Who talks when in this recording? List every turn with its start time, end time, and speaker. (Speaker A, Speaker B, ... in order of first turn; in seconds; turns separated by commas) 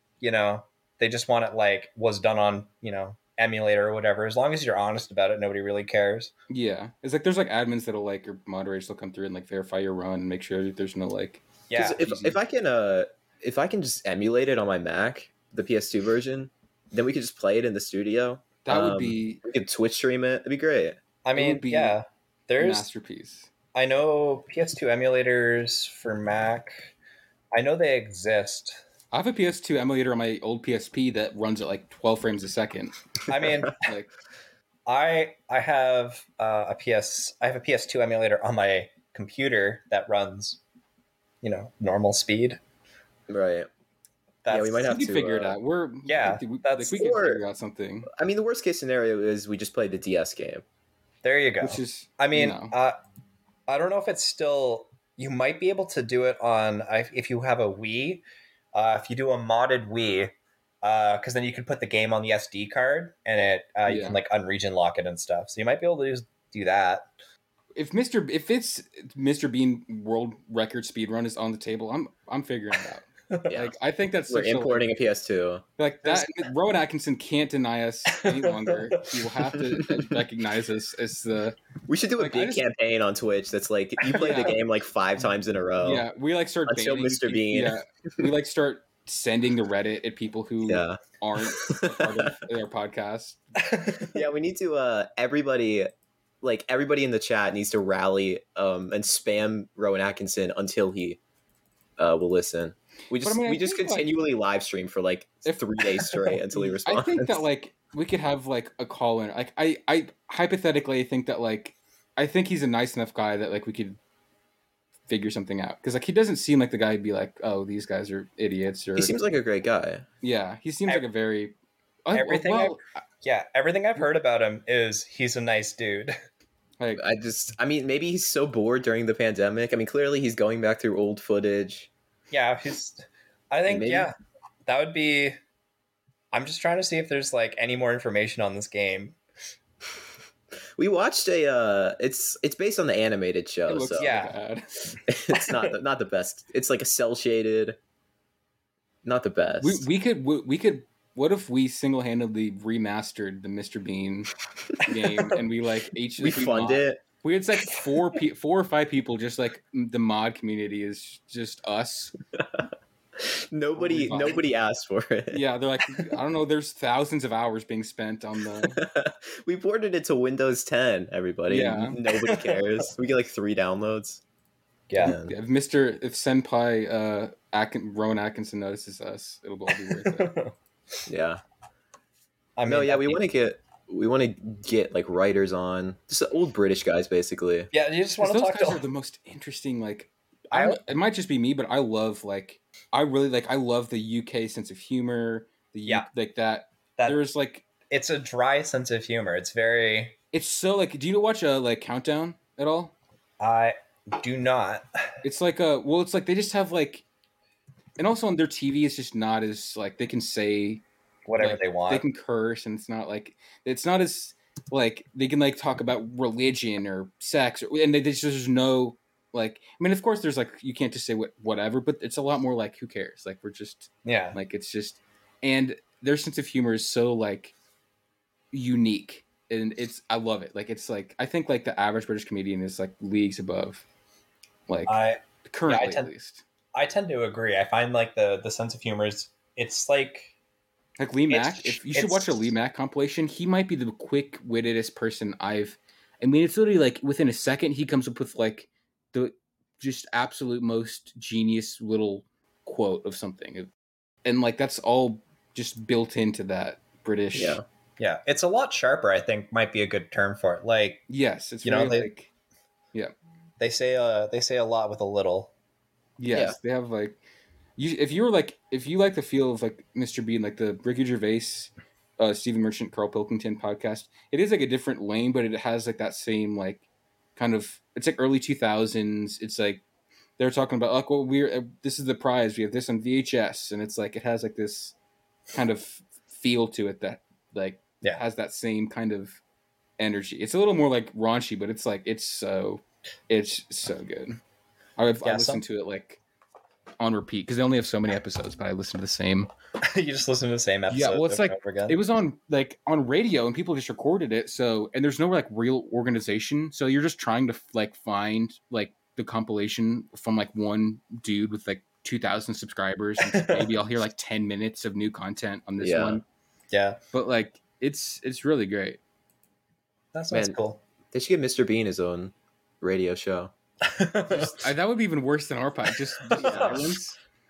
Speaker A: 0.2-6.3, Speaker B: 6.5-12.3, Speaker A: 11.7-12.1, Speaker C: 11.7-21.0, Speaker B: 18.6-19.4, Speaker A: 21.2-22.9, Speaker B: 21.3-21.9, Speaker B: 22.6-23.5, Speaker A: 23.7-26.9, Speaker A: 27.5-28.8, Speaker B: 29.1-33.1, Speaker A: 33.3-33.8, Speaker B: 33.7-34.1, Speaker A: 34.9-40.6, Speaker A: 41.4-42.6, Speaker C: 43.3-43.7, Speaker A: 44.4-44.9, Speaker C: 44.5-45.5, Speaker B: 44.8-48.1, Speaker A: 46.0-47.2, Speaker C: 47.0-47.4, Speaker C: 48.1-50.6, Speaker A: 51.2-53.0, Speaker B: 51.6-52.7, Speaker A: 53.7-67.1, Speaker B: 63.9-64.2, Speaker B: 67.7-74.9, Speaker C: 73.5-73.7, Speaker C: 74.3-75.6, Speaker B: 75.8-81.6, Speaker A: 76.0-76.3, Speaker A: 78.1-79.2, Speaker C: 81.8-86.0, Speaker B: 82.2-82.6, Speaker B: 84.1-84.6, Speaker B: 85.8-93.4, Speaker C: 86.7-88.2, Speaker C: 90.6-91.0, Speaker C: 91.6-92.3, Speaker A: 93.6-94.2, Speaker C: 94.1-95.9, Speaker C: 96.4-101.2, Speaker C: 102.0-107.4, Speaker B: 103.2-104.2, Speaker B: 105.5-114.0, Speaker B: 115.1-119.2, Speaker C: 119.0-120.0, Speaker B: 120.2-121.5, Speaker B: 122.0-123.0, Speaker A: 122.1-126.1, Speaker C: 127.0-131.9, Speaker A: 132.3-134.1, Speaker C: 133.7-134.1, Speaker A: 134.7-135.4, Speaker A: 136.3-139.2, Speaker C: 140.8-144.1, Speaker B: 143.7-144.7, Speaker A: 144.0-144.4, Speaker C: 145.1-147.8, Speaker A: 145.3-145.7, Speaker C: 149.0-149.8, Speaker B: 149.6-162.1, Speaker C: 156.2-157.0, Speaker C: 163.2-165.4, Speaker B: 163.8-164.4, Speaker B: 165.3-168.8, Speaker C: 168.7-174.2, Speaker B: 171.5-172.0, Speaker A: 172.3-172.6, Speaker A: 174.9-175.1, Speaker C: 175.0-175.3, Speaker B: 175.0-180.3, Speaker A: 179.9-180.5, Speaker C: 181.1-181.4, Speaker A: 182.6-183.2, Speaker C: 182.7-187.7, Speaker A: 187.7-188.8, Speaker B: 188.2-197.6, Speaker A: 190.5-190.8, Speaker A: 197.9-200.2, Speaker B: 200.3-202.9, Speaker A: 203.4-205.1, Speaker B: 205.2-207.0, Speaker B: 208.0-210.8, Speaker A: 211.3-212.0, Speaker B: 211.4-227.5, Speaker A: 224.1-224.4, Speaker B: 228.5-233.8, Speaker B: 234.7-236.4, Speaker A: 234.9-236.1, Speaker A: 236.7-240.3, Speaker B: 241.0-253.7, Speaker A: 241.3-242.5, Speaker B: 254.2-257.6, Speaker C: 257.3-257.6, Speaker A: 258.0-261.0, Speaker B: 261.1-262.3, Speaker A: 261.6-262.1, Speaker A: 263.6-265.5, Speaker B: 266.2-267.2, Speaker C: 266.3-266.6, Speaker B: 267.8-279.8, Speaker B: 280.4-284.9, Speaker B: 285.5-289.4, Speaker B: 290.0-294.4, Speaker B: 295.0-296.2, Speaker A: 295.2-295.6, Speaker B: 297.0-299.5, Speaker A: 299.8-302.0, Speaker B: 300.9-316.2, Speaker A: 313.2-313.8, Speaker C: 315.8-316.2, Speaker A: 316.7-317.0, Speaker B: 317.1-319.0, Speaker A: 320.1-320.8, Speaker C: 320.3-320.6, Speaker C: 321.1-323.5, Speaker A: 323.8-324.7, Speaker B: 324.3-327.1, Speaker A: 326.3-326.9, Speaker C: 326.4-326.9